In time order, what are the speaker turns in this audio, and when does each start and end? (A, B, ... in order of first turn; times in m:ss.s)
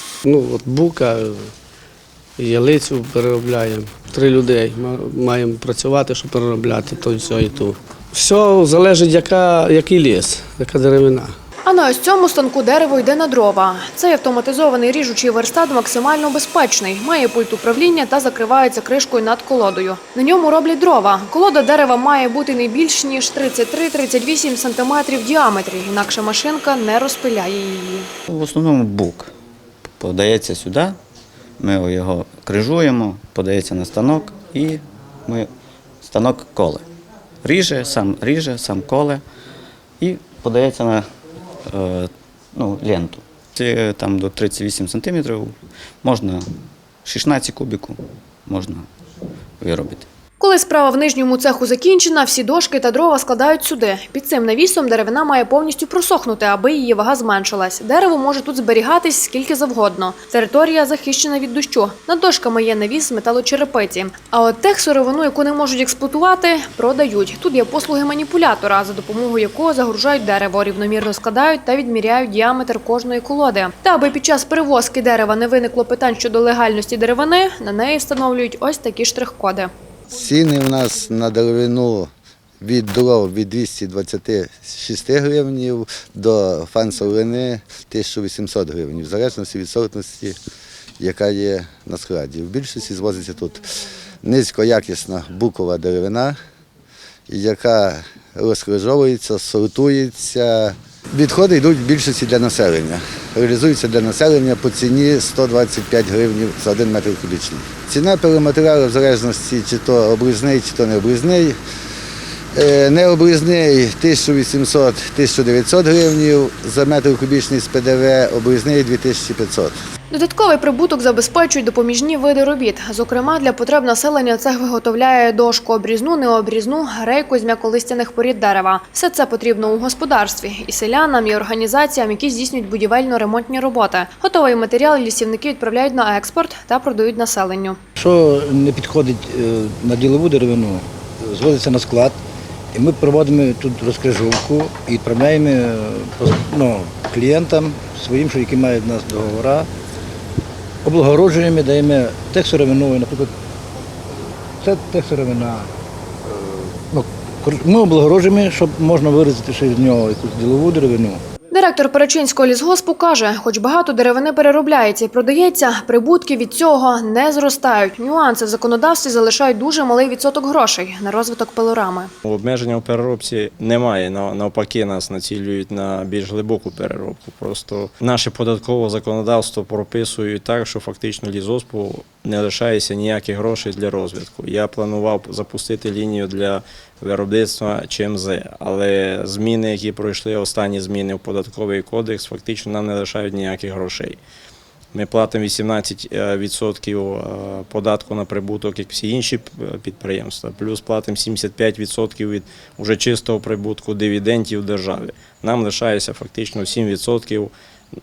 0:00.2-0:01.5 A
0:02.4-0:11.4 A
0:11.6-0:28.1 B
0:28.3-0:29.3 C
0:30.0-0:31.0 C
0:31.6-0:35.5 C
0:36.0-0:36.9 C
0:37.4-0:39.2 C
0:40.0-0:41.1 C
0:41.7-0:46.5 C
0:47.0-0:48.9 C
0:49.6-0:50.1 C
0:50.4-1:19.7 B
1:20.1-1:22.1 D
1:22.6-1:30.4 D
1:31.0-1:33.6 D
1:34.2-1:36.4 D
1:37.3-1:51.6 D
1:52.6-1:59.7 D
2:00.1-2:17.8 B
2:18.0-2:22.2 E
2:22.7-2:29.7 E
2:30.8-2:33.3 E
2:34.6-2:35.7 E
2:36.3-2:41.2 E
2:41.5-2:52.1 B
2:52.2-3:14.2 F
3:14.9-3:27.5 F